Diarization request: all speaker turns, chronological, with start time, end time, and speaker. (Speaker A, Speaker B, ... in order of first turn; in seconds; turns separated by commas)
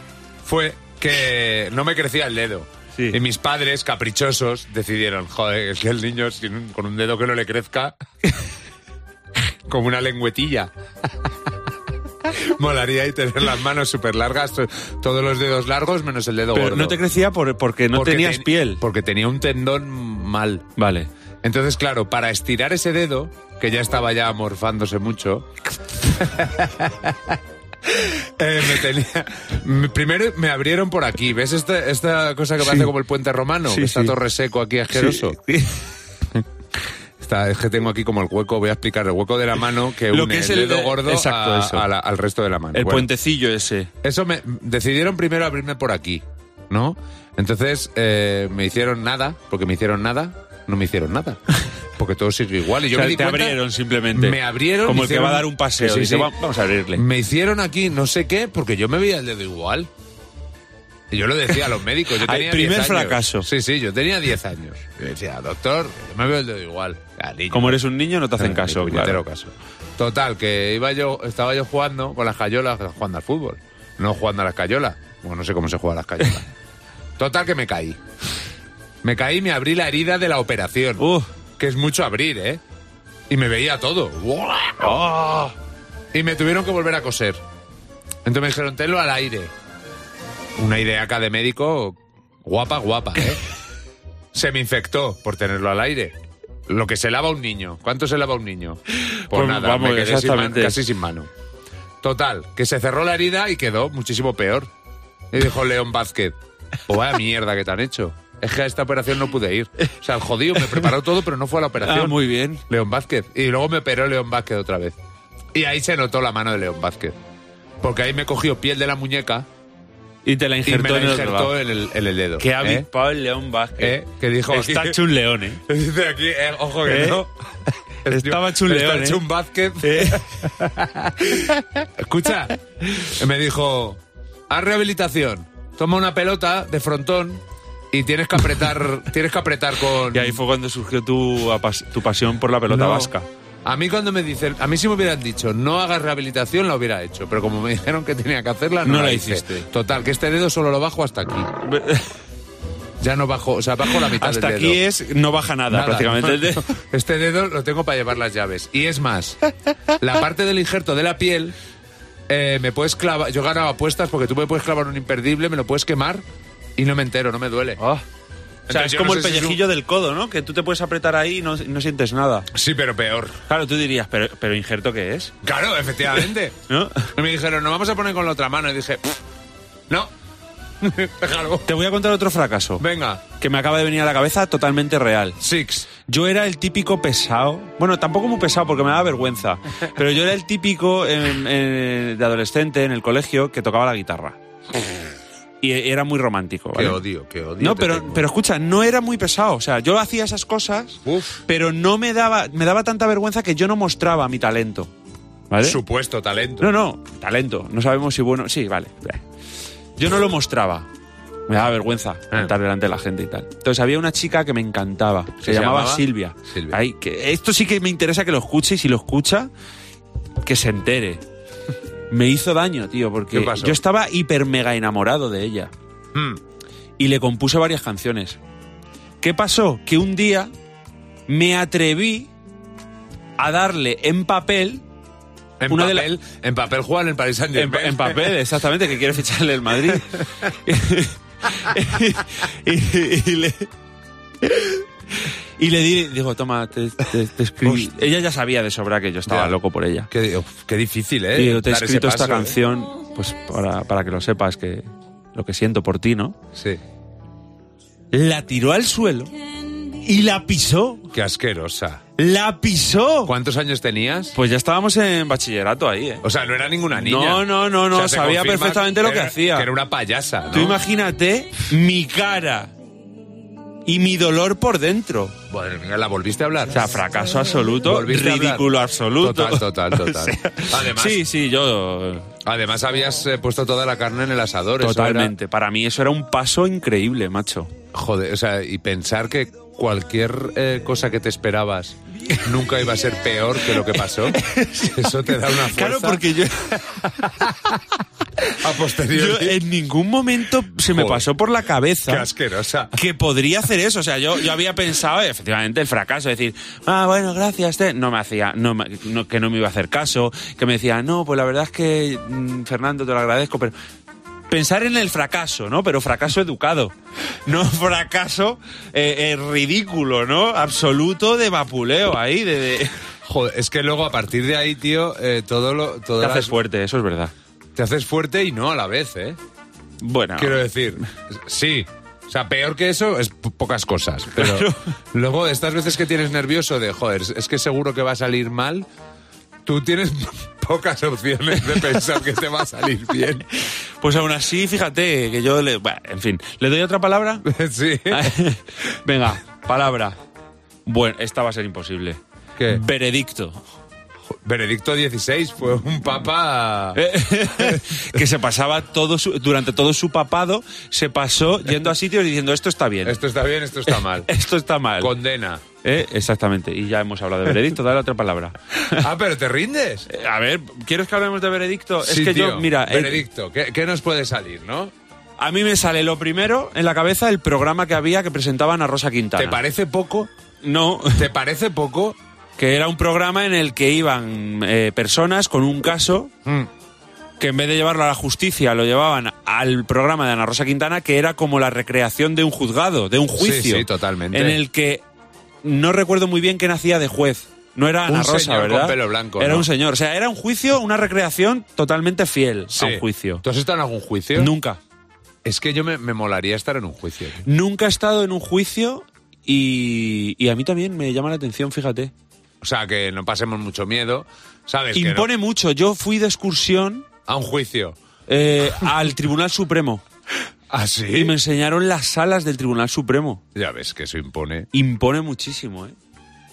Speaker A: 0.4-8.0, Speaker A: 9.7-10.7, Speaker A: 12.2-17.0, Speaker B: 16.5-18.8, Speaker A: 17.9-20.7, Speaker B: 20.8-21.1, Speaker A: 21.4-35.4, Speaker B: 32.6-32.9, Speaker B: 33.7-34.2, Speaker B: 34.9-35.8, Speaker A: 37.2-43.1, Speaker B: 40.1-41.9, Speaker B: 42.7-43.9, Speaker A: 44.0-51.4, Speaker A: 52.0-53.6, Speaker B: 52.9-57.0, Speaker A: 54.1-56.3, Speaker A: 56.9-59.9, Speaker A: 61.1-67.8, Speaker B: 62.1-63.5, Speaker B: 67.5-69.2, Speaker A: 68.4-76.5, Speaker A: 77.2-78.0, Speaker A: 79.0-82.6, Speaker B: 81.0-81.3, Speaker A: 83.3-85.5, Speaker B: 84.9-85.5, Speaker A: 86.1-87.4, Speaker A: 88.2-89.5, Speaker A: 90.6-93.4, Speaker A: 94.3-96.2, Speaker A: 96.7-101.3, Speaker B: 99.0-100.8, Speaker A: 102.0-104.7, Speaker A: 105.3-106.4, Speaker A: 106.9-115.0, Speaker B: 111.8-112.6, Speaker A: 115.5-117.2, Speaker A: 117.8-119.5, Speaker B: 120.2-121.5, Speaker A: 120.6-122.9, Speaker B: 122.4-125.6, Speaker A: 123.8-125.0, Speaker A: 125.7-127.3, Speaker B: 126.8-127.2, Speaker A: 128.1-140.4, Speaker B: 128.1-129.2, Speaker B: 129.8-130.3, Speaker B: 140.1-143.3, Speaker A: 142.7-143.1, Speaker A: 143.7-151.5, Speaker B: 148.8-149.7, Speaker B: 151.6-152.1, Speaker A: 153.0-154.8, Speaker B: 153.8-156.7, Speaker A: 155.7-159.4, Speaker A: 160.0-161.6, Speaker A: 162.3-166.2, Speaker A: 166.8-167.8, Speaker B: 167.8-168.0, Speaker A: 168.7-169.6, Speaker B: 168.7-172.5, Speaker A: 172.5-173.4, Speaker B: 173.5-175.3, Speaker A: 175.4-176.6, Speaker B: 176.7-177.1, Speaker A: 177.1-179.2, Speaker A: 180.8-181.7, Speaker B: 181.7-182.8, Speaker A: 182.8-183.2, Speaker B: 183.4-185.4, Speaker A: 185.4-185.9, Speaker B: 186.1-194.4, Speaker B: 195.6-197.0, Speaker A: 196.8-198.2, Speaker B: 197.6-204.9, Speaker A: 201.1-201.4, Speaker B: 205.5-205.8, Speaker A: 205.6-206.7, Speaker B: 206.6-209.2, Speaker B: 210.0-210.9, Speaker B: 211.5-219.5, Speaker A: 215.4-216.8, Speaker B: 220.4-221.2, Speaker B: 222.1-225.7, Speaker A: 223.3-223.8, Speaker A: 226.1-226.4, Speaker B: 227.0-228.4, Speaker B: 229.2-230.5, Speaker B: 231.3-232.3, Speaker B: 233.4-234.8, Speaker A: 235.6-238.3, Speaker B: 235.7-236.1, Speaker B: 237.6-243.7, Speaker B: 244.4-250.1, Speaker A: 249.3-249.6, Speaker A: 250.1-252.6, Speaker B: 251.3-256.4, Speaker A: 256.6-256.8, Speaker B: 258.1-259.3, Speaker B: 260.0-261.1, Speaker A: 261.1-262.0, Speaker B: 262.2-263.3, Speaker A: 263.3-264.4, Speaker B: 264.3-266.2, Speaker A: 266.2-270.8, Speaker B: 266.9-269.7, Speaker B: 270.5-272.7, Speaker B: 273.9-275.4, Speaker A: 275.5-276.8, Speaker B: 276.7-282.3, Speaker A: 277.8-281.2, Speaker A: 282.4-285.3, Speaker B: 284.8-287.7, Speaker A: 287.9-296.2, Speaker B: 294.3-297.5, Speaker A: 297.2-297.6, Speaker B: 298.4-302.3, Speaker A: 298.5-299.6, Speaker A: 300.9-301.3, Speaker A: 302.1-302.9, Speaker B: 302.9-313.7, Speaker B: 314.5-316.9, Speaker B: 317.4-322.9, Speaker A: 323.2-326.6, Speaker B: 326.2-327.3, Speaker A: 327.8-329.4, Speaker B: 330.0-330.7, Speaker A: 330.4-338.9, Speaker B: 334.4-334.9, Speaker A: 339.6-343.5, Speaker B: 344.0-347.5, Speaker A: 347.4-348.4, Speaker B: 348.1-350.2, Speaker B: 350.8-353.6, Speaker A: 352.6-352.8, Speaker A: 354.4-358.2, Speaker B: 356.9-363.2, Speaker A: 363.0-364.3, Speaker B: 364.2-365.1, Speaker A: 365.0-365.6, Speaker B: 365.8-369.1, Speaker A: 368.9-370.1, Speaker B: 370.1-373.2, Speaker A: 372.0-374.9, Speaker B: 375.4-379.6, Speaker A: 379.4-380.3, Speaker B: 380.6-381.3, Speaker A: 381.1-382.2, Speaker B: 382.6-386.3, Speaker B: 387.4-395.0, Speaker A: 393.4-394.6, Speaker B: 395.6-403.4, Speaker A: 398.1-399.7, Speaker A: 402.7-404.5, Speaker B: 404.4-404.8, Speaker A: 405.4-407.4, Speaker B: 407.4-412.1, Speaker A: 412.6-415.3, Speaker B: 414.9-417.1, Speaker A: 417.3-418.0, Speaker B: 418.3-420.0, Speaker A: 420.7-421.4, Speaker B: 421.1-423.4, Speaker A: 423.6-424.7, Speaker B: 424.7-425.9